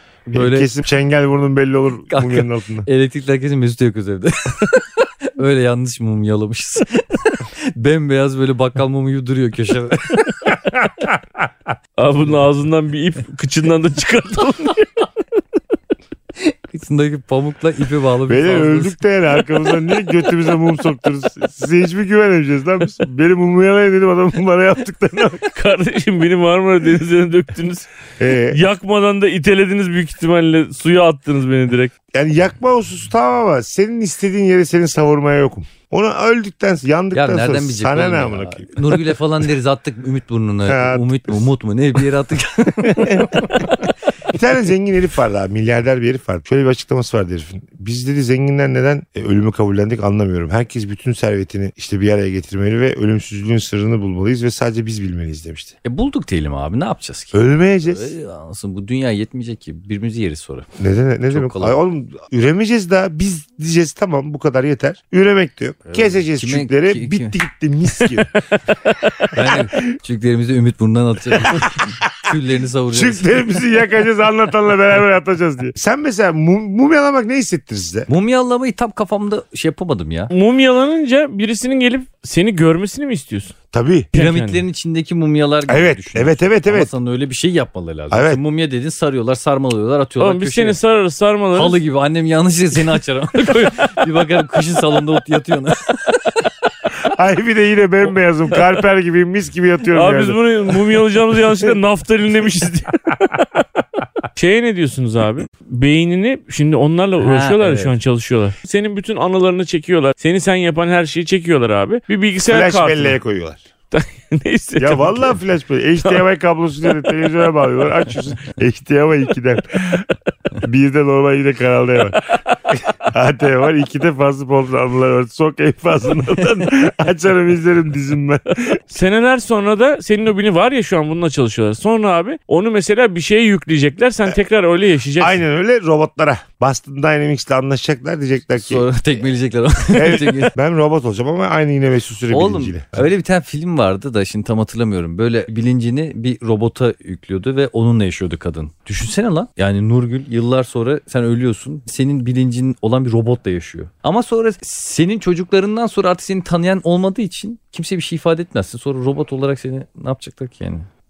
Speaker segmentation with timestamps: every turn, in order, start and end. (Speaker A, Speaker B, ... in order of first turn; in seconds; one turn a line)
Speaker A: 0.3-0.8
Speaker B: 0.3-2.9
Speaker A: 2.1-10.4
Speaker C: 12.0-15.1
Speaker A: 16.7-19.0
Speaker B: 18.3-25.4
Speaker C: 25.5-27.9
Speaker B: 28.2-28.6
Speaker C: 28.4-31.9
Speaker B: 32.1-39.2
Speaker A: 37.1-43.7
Speaker B: 40.7-41.5
Speaker B: 42.8-55.7
Speaker A: 55.8-60.7
Speaker B: 57.3-58.1
Speaker B: 60.8-68.3
Speaker A: 61.3-61.8
Speaker A: 65.8-67.4
Speaker A: 69.3-73.4
Speaker B: 72.9-78.1
Speaker A: 78.1-80.3
Speaker C: 80.3-83.5
Speaker B: 83.7-84.1
Speaker C: 84.1-84.6
Speaker A: 84.1-90.8
Speaker B: 85.7-86.9
Speaker B: 88.1-88.4
Speaker C: 90.2-91.8
Speaker A: 91.5-96.3
Speaker B: 97.0-101.0
Speaker C: 99.9-103.5
Speaker C: 104.3-113.1
Speaker A: 107.2-107.9
Speaker B: 112.4-113.6
Speaker C: 113.9-115.4
Speaker B: 114.8-120.1
Speaker B: 120.6-122.2
Speaker B: 122.7-128.8
Speaker C: 128.9-135.4
Speaker B: 135.2-138.8
Speaker A: 138.6-140.5
Speaker B: 139.9-143.1
Speaker A: 142.3-160.9